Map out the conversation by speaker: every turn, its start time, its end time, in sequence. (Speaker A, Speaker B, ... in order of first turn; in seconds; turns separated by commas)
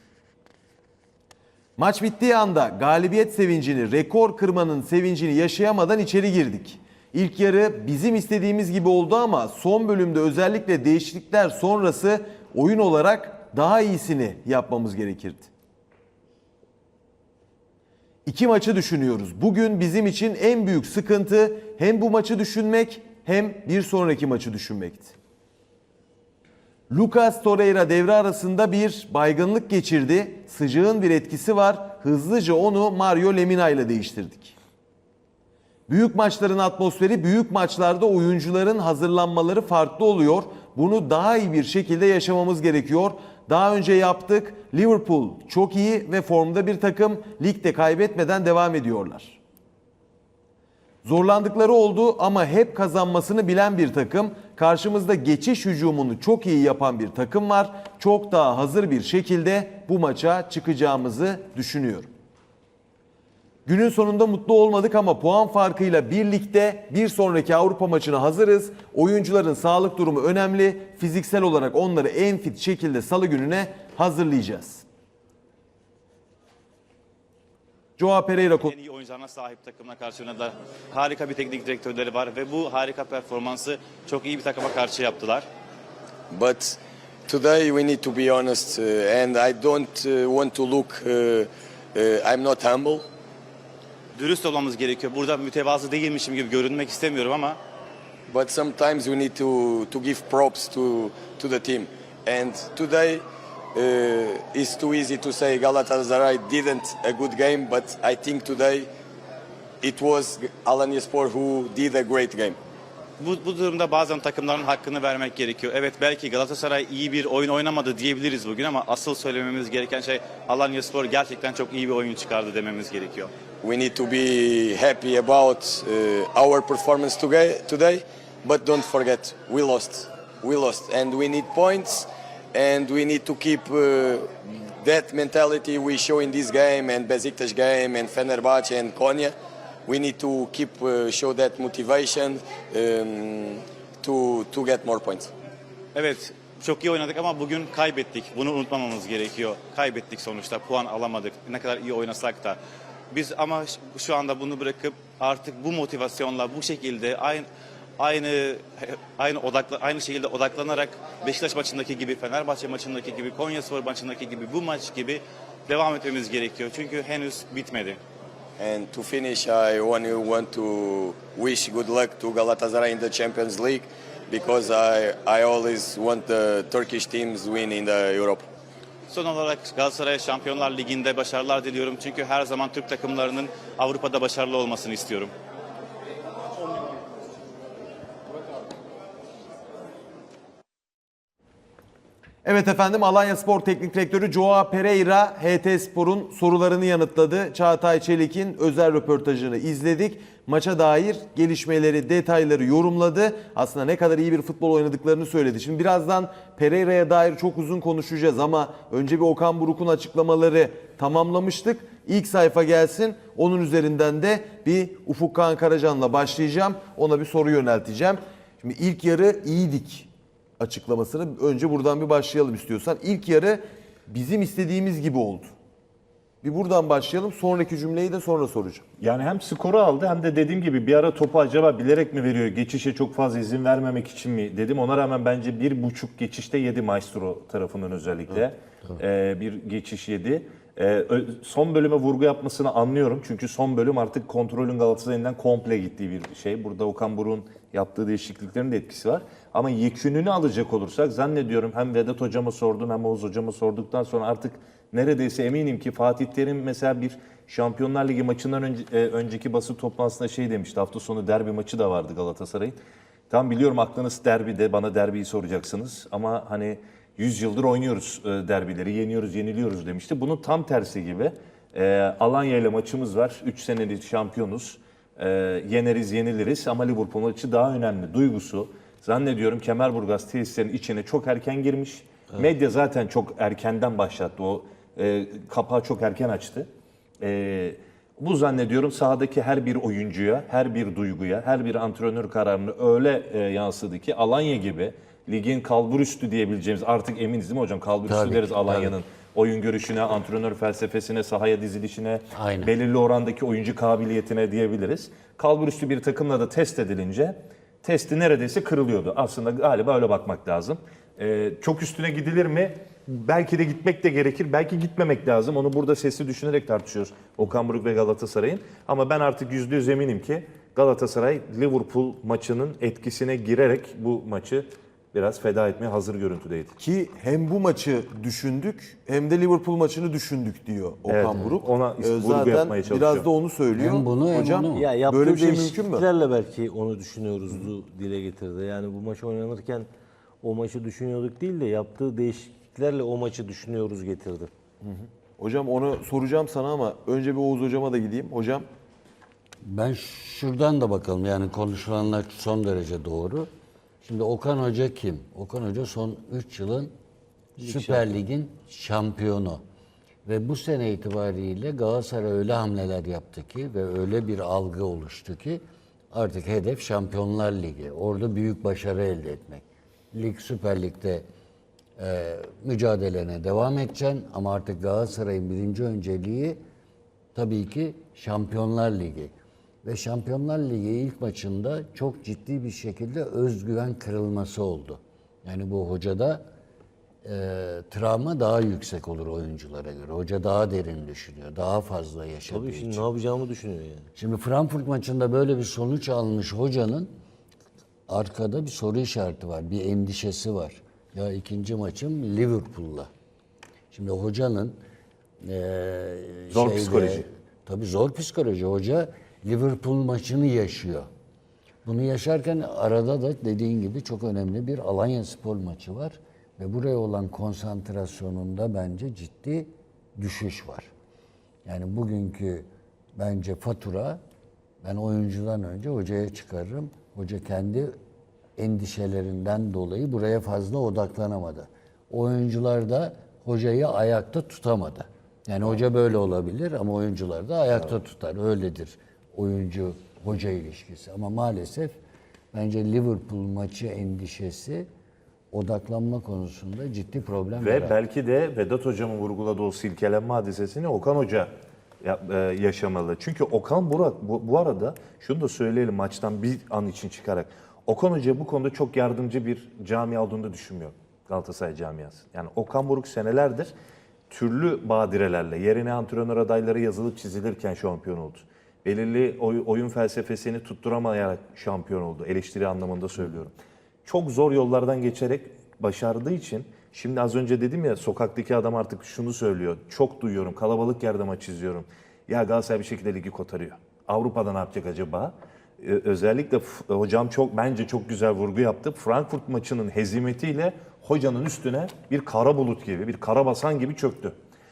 Speaker A: 1.8-15.5, Speaker A: 18.2-25.1, Speaker A: 26.9-34.5, Speaker A: 35.9-49.4, Speaker A: 51.0-62.1, Speaker A: 63.6-74.8, Speaker A: 78.0-78.7, Speaker B: 78.6-85.5, Speaker C: 86.3-93.0, Speaker B: 94.2-97.6, Speaker C: 98.3-103.2, Speaker C: 103.7-108.9, Speaker C: 109.8-112.6, Speaker B: 113.2-123.3, Speaker C: 123.6-139.3, Speaker C: 139.9-145.3, Speaker B: 145.9-152.6, Speaker B: 153.1-157.5, Speaker B: 158.0-168.0, Speaker C: 168.6-178.4, Speaker B: 179.1-185.3, Speaker A: 192.4-225.5, Speaker A: 226.4-228.8, Speaker D: 229.0-262.8, Speaker D: 263.3-286.7, Speaker D: 287.2-326.7, Speaker E: 298.1-299.0, Speaker E: 302.3-302.7, Speaker A: 326.8-336.1, Speaker D: 331.1-333.3, Speaker E: 333.7-334.9, Speaker F: 334.7-339.9, Speaker F: 340.4-344.5, Speaker A: 344.8-348.6, Speaker E: 349.6-353.5, Speaker E: 354.0-356.9, Speaker F: 357.6-358.1, Speaker E: 357.6-359.6, Speaker E: 360.2-365.6, Speaker E: 366.1-371.2, Speaker E: 372.0-376.6, Speaker E: 377.3-379.3, Speaker E: 379.8-386.4, Speaker E: 387.2-393.1, Speaker F: 392.5-394.1, Speaker E: 394.1-397.1, Speaker E: 398.1-403.1, Speaker E: 403.9-404.8, Speaker E: 405.4-411.1, Speaker D: 406.5-407.2, Speaker E: 411.8-420.9, Speaker E: 421.6-424.2, Speaker E: 424.8-427.9, Speaker E: 428.6-441.9, Speaker E: 442.5-444.9, Speaker E: 445.5-447.9, Speaker D: 447.6-451.5, Speaker D: 452.0-463.7, Speaker D: 464.3-473.5, Speaker D: 474.0-494.3